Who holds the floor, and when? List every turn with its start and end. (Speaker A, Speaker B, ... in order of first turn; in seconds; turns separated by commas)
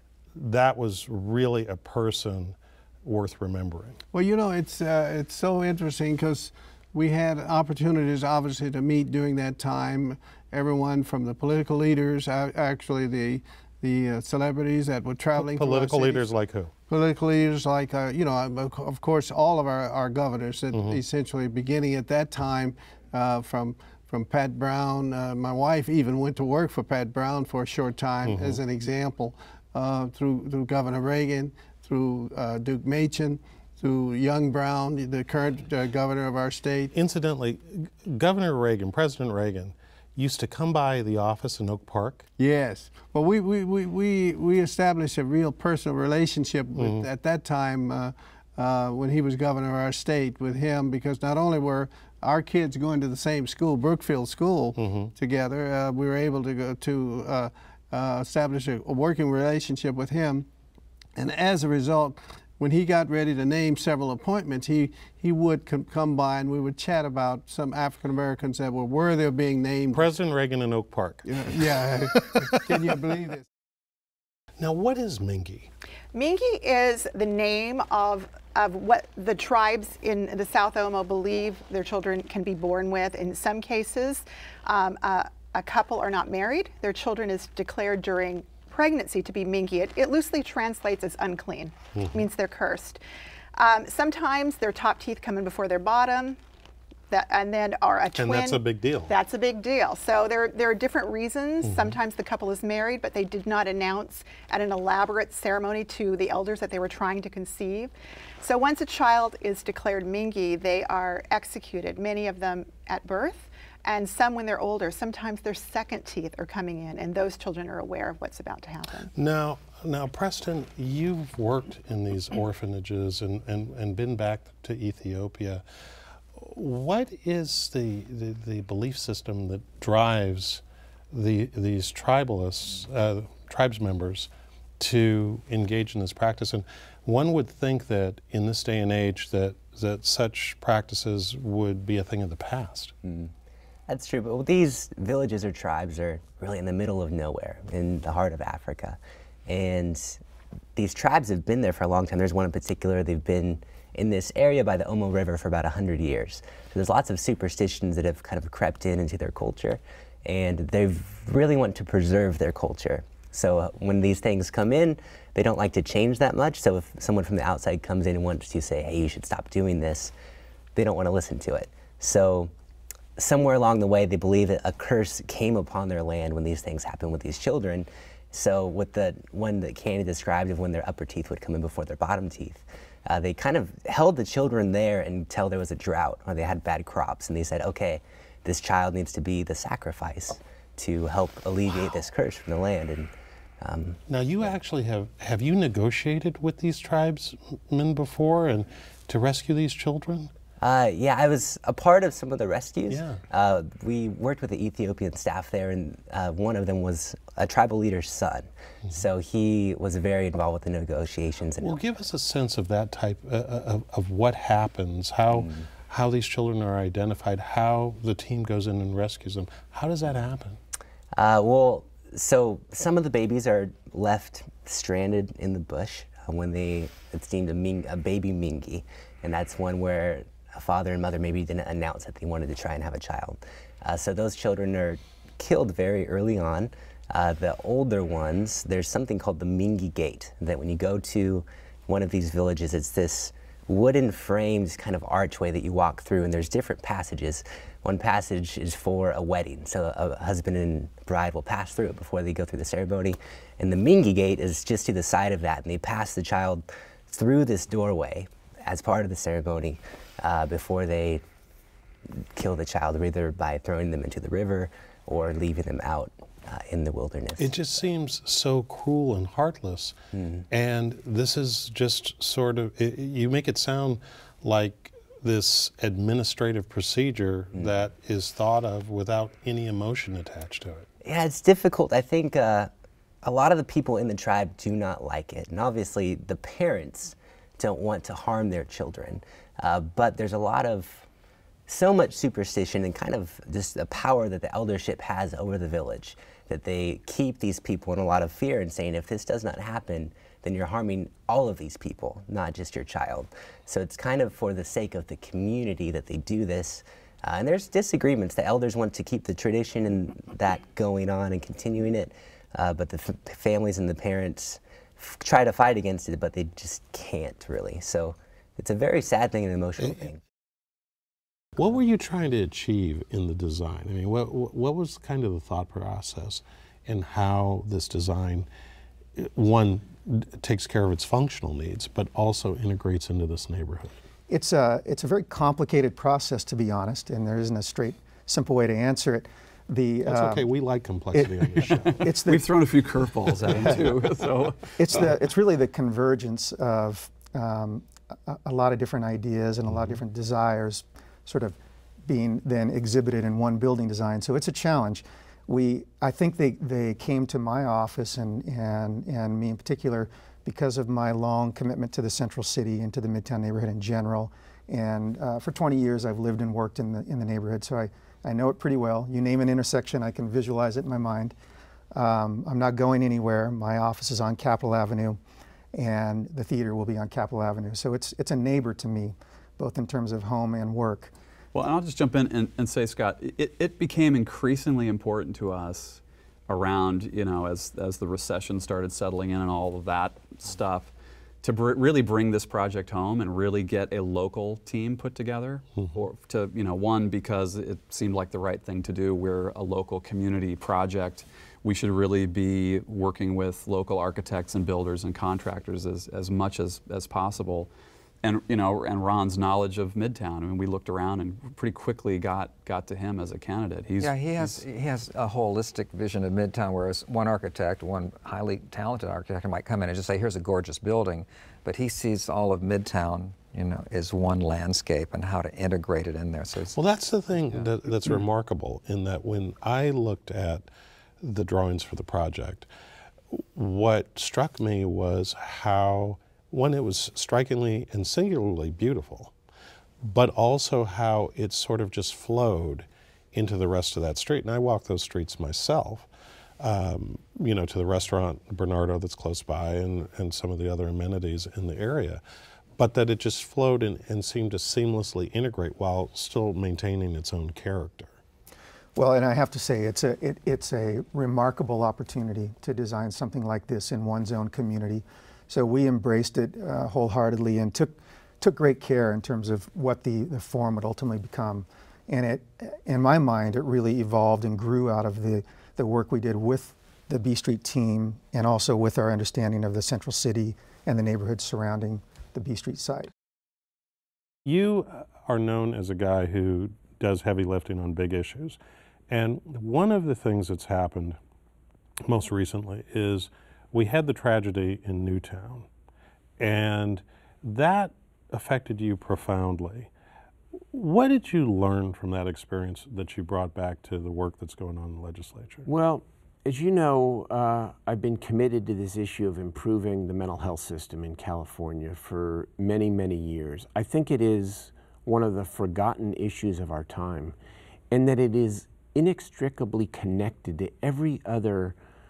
Speaker A: 0.3-4.0, Speaker B: 4.1-16.3, Speaker A: 15.3-16.7, Speaker B: 16.9-36.9, Speaker A: 20.7-21.0, Speaker A: 28.2-28.6, Speaker A: 36.9-42.2, Speaker B: 42.4-60.5, Speaker A: 46.8-47.1, Speaker A: 54.8-55.1, Speaker B: 61.1-70.0, Speaker A: 69.9-73.0, Speaker B: 71.2-73.4, Speaker A: 74.6-75.7, Speaker C: 76.1-93.0, Speaker A: 92.0-92.2, Speaker C: 93.6-96.4, Speaker C: 97.1-119.1, Speaker A: 98.1-99.1, Speaker A: 101.6-102.0, Speaker A: 119.1-125.6, Speaker A: 126.3-142.9, Speaker D: 143.0-143.3, Speaker D: 143.9-150.2, Speaker D: 150.8-170.1, Speaker D: 170.8-172.5, Speaker D: 173.2-194.5, Speaker A: 194.1-200.3, Speaker D: 200.6-211.8, Speaker A: 202.9-203.2, Speaker A: 211.6-220.6, Speaker D: 215.3-215.7, Speaker D: 221.1-261.2, Speaker D: 262.4-267.5, Speaker A: 267.4-269.9, Speaker D: 270.1-270.4, Speaker A: 270.5-280.9, Speaker D: 281.0-282.7, Speaker D: 283.2-291.1, Speaker D: 291.7-320.2, Speaker A: 321.6-328.5, Speaker A: 329.2-333.9, Speaker E: 334.3-340.4, Speaker A: 340.1-342.0, Speaker E: 341.1-342.5, Speaker F: 341.6-345.2, Speaker E: 343.4-343.9, Speaker E: 344.8-371.3, Speaker E: 371.9-375.2, Speaker E: 375.7-381.1, Speaker F: 381.5-390.9, Speaker F: 391.4-407.7, Speaker F: 408.2-414.6, Speaker G: 414.0-426.8, Speaker A: 426.7-430.7, Speaker A: 431.2-432.7, Speaker A: 433.3-439.3, Speaker A: 440.0-446.1, Speaker A: 446.6-452.2, Speaker A: 452.8-458.1, Speaker E: 458.9-483.1, Speaker A: 484.4-491.2, Speaker A: 492.1-495.7, Speaker A: 496.4-499.9, Speaker A: 500.7-505.7, Speaker H: 505.6-517.4, Speaker H: 517.9-521.8